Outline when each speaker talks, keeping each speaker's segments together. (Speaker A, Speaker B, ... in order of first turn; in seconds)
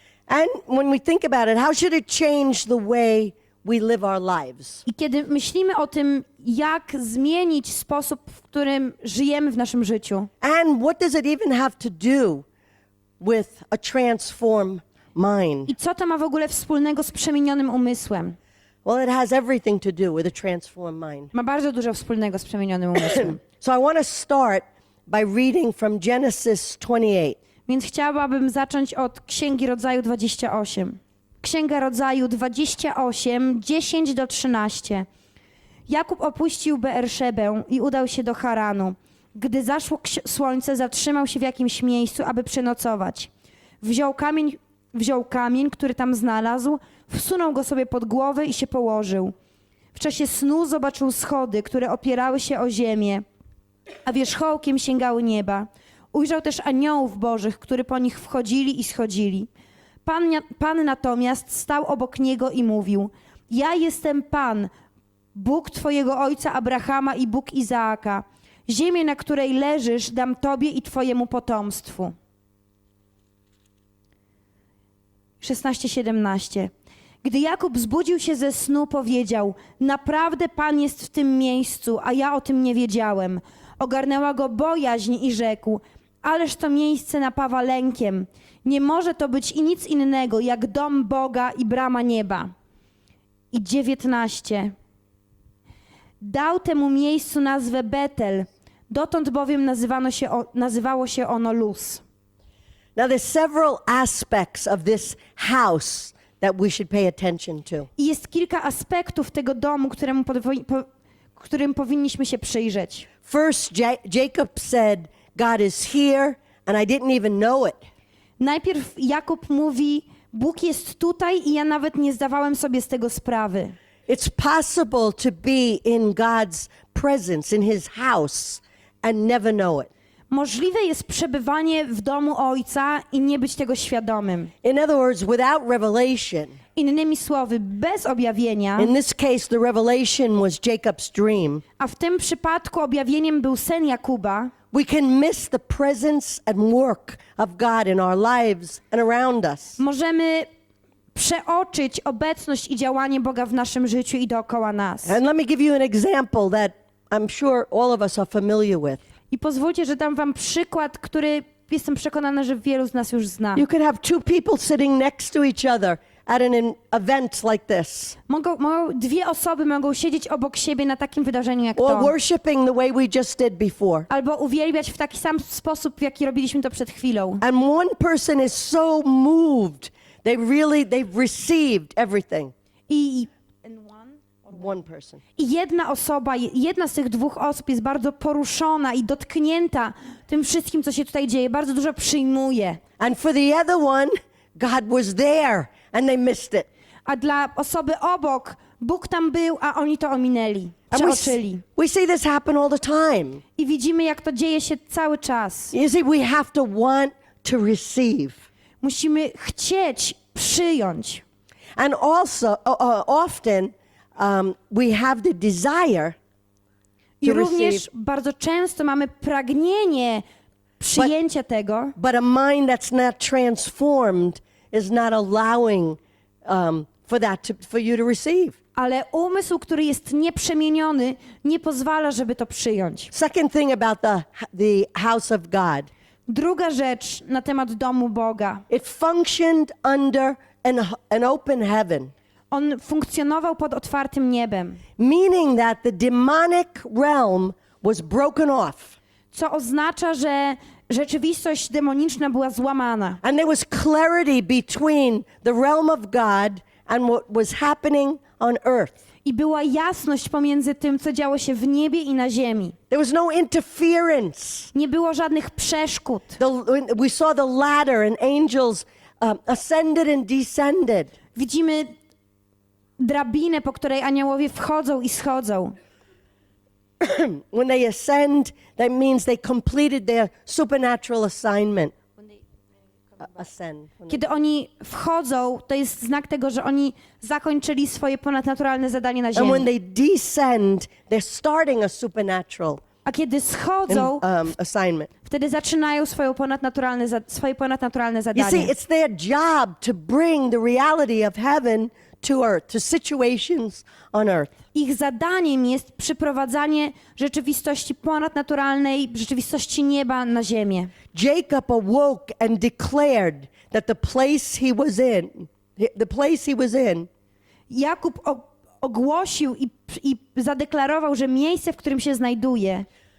Speaker A: 0.3-4.8, 10.4-12.4, 13.2-15.7, 18.9-21.3, 23.0-27.4, 103.0-107.9, 113.3-117.8, 124.1-129.9, 134.6-136.6, 138.8-141.6, 144.7-149.8, 155.1-159.0, 163.6-168.2, 171.8-174.1, 177.4-182.5, 184.5-185.2, 193.0-196.7, 200.9-203.4, 205.7-208.4, 211.8-216.2, 217.2-217.8, 222.0-228.6, 233.1-235.9, 238.7-242.1, 245.0-249.0, 253.2-258.9, 262.9-264.7, 266.4-271.1, 277.0-281.9, 283.2-284.2, 289.4-292.8, 293.9-295.1, 298.4-304.5, 311.1-317.1
Speaker B: 4.9-10.3, 15.7-18.4, 21.3-23.4, 27.7-35.1, 35.9-43.3, 43.8-49.3, 49.9-53.2, 54.0-59.5, 60.0-64.7, 65.3-72.2, 75.4-76.7, 77.2-92.5, 93.5-94.7, 96.2-102.0, 108.0-113.1, 118.4-123.8, 130.3-134.5, 136.8-138.9, 141.8-144.5, 149.8-150.5, 151.1-155.2, 159.3-163.7, 168.3-172.1, 174.1-177.4, 182.9-184.2, 185.4-192.8, 197.1-201.6, 203.6-205.7, 208.8-211.2, 217.2-220.2, 220.8-221.9, 228.8-233.1, 236.3-238.6, 242.5-244.8, 249.3-253.2, 259.2-262.8, 264.7-266.4, 271.4-271.9, 273.0-275.8, 284.1-289.7, 293.1-294.2, 295.2-298.7, 304.7-310.9, 317.7-322.9